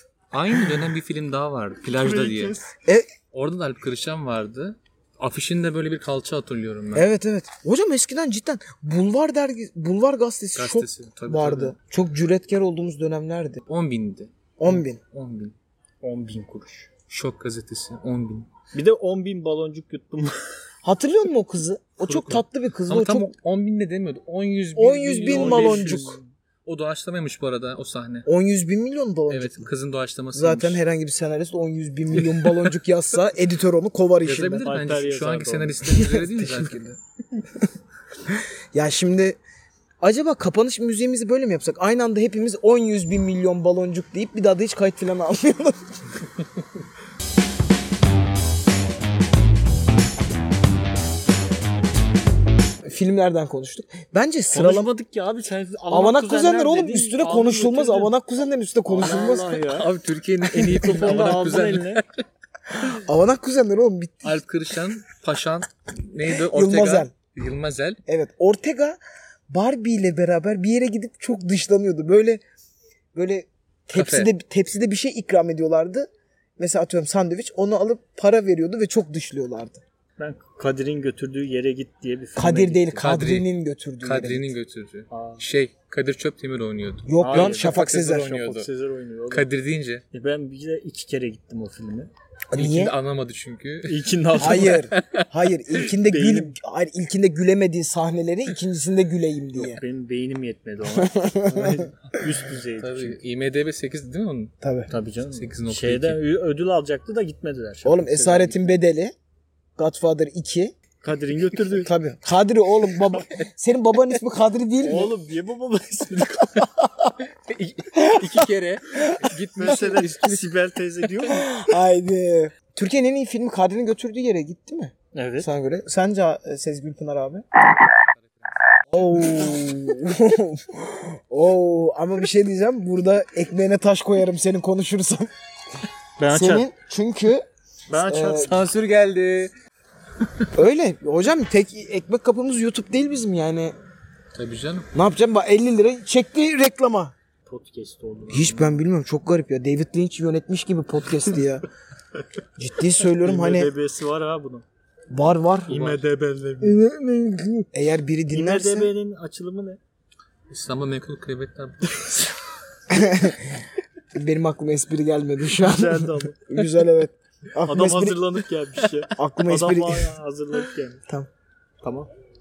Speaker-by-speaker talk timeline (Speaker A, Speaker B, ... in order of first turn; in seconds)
Speaker A: 0.3-2.6, 3.3-7.1, 10.6-11.7, 13.7-15.5, 17.1-18.5, 22.1-28.3, 29.3-30.8, 32.1-32.6, 34.2-37.0, 59.7-62.2, 64.2-68.0, 73.9-74.3, 83.0-83.5, 84.0-88.7, 89.3-90.0, 92.5-95.3, 102.8-104.5, 105.3-106.2, 112.9-113.5, 117.5-120.5, 128.9-129.6, 138.3-139.5, 144.3-144.9, 155.7-156.0, 160.5-162.3
Speaker B: 2.0-2.7, 16.0-16.9, 18.7-20.4, 25.2-26.3, 34.6-35.8, 54.5-58.1, 58.9-59.9, 60.5-62.0, 80.2-83.0, 85.1-85.4, 87.2-89.5, 90.1-92.1, 93.8-94.9, 96.0-96.5, 99.5-103.2, 104.9-108.8, 111.0-111.9, 114.8-116.6, 119.5-121.5, 125.1-125.5, 136.2-136.7, 137.9-138.5, 147.4-148.8, 153.2-154.6, 155.7-156.8, 158.3-159.8, 165.5-166.4, 167.6-171.0, 171.8-172.1
Speaker C: 6.9-13.6, 14.6-15.0, 20.8-23.3, 24.7-26.2, 28.2-29.7, 30.3-34.7, 35.8-36.8, 38.7-39.4, 40.0-46.0, 52.8-54.9, 55.9-59.6, 63.0-64.4, 66.4-67.1, 68.1-69.0, 69.5-72.4, 73.1-79.8, 82.3-84.5, 87.0-88.3, 92.5-92.9, 94.4-99.8, 100.9-101.8, 104.6-104.9, 107.8-109.1, 109.8-110.7, 111.8-115.1, 117.9-118.5, 121.2-127.4, 128.9-135.3, 136.3-138.5, 140.5-143.7, 144.9-147.1, 148.3-151.7, 152.6-153.7, 155.1-155.7, 156.6-158.9, 162.9-163.6, 164.1-168.2, 169.2-170.1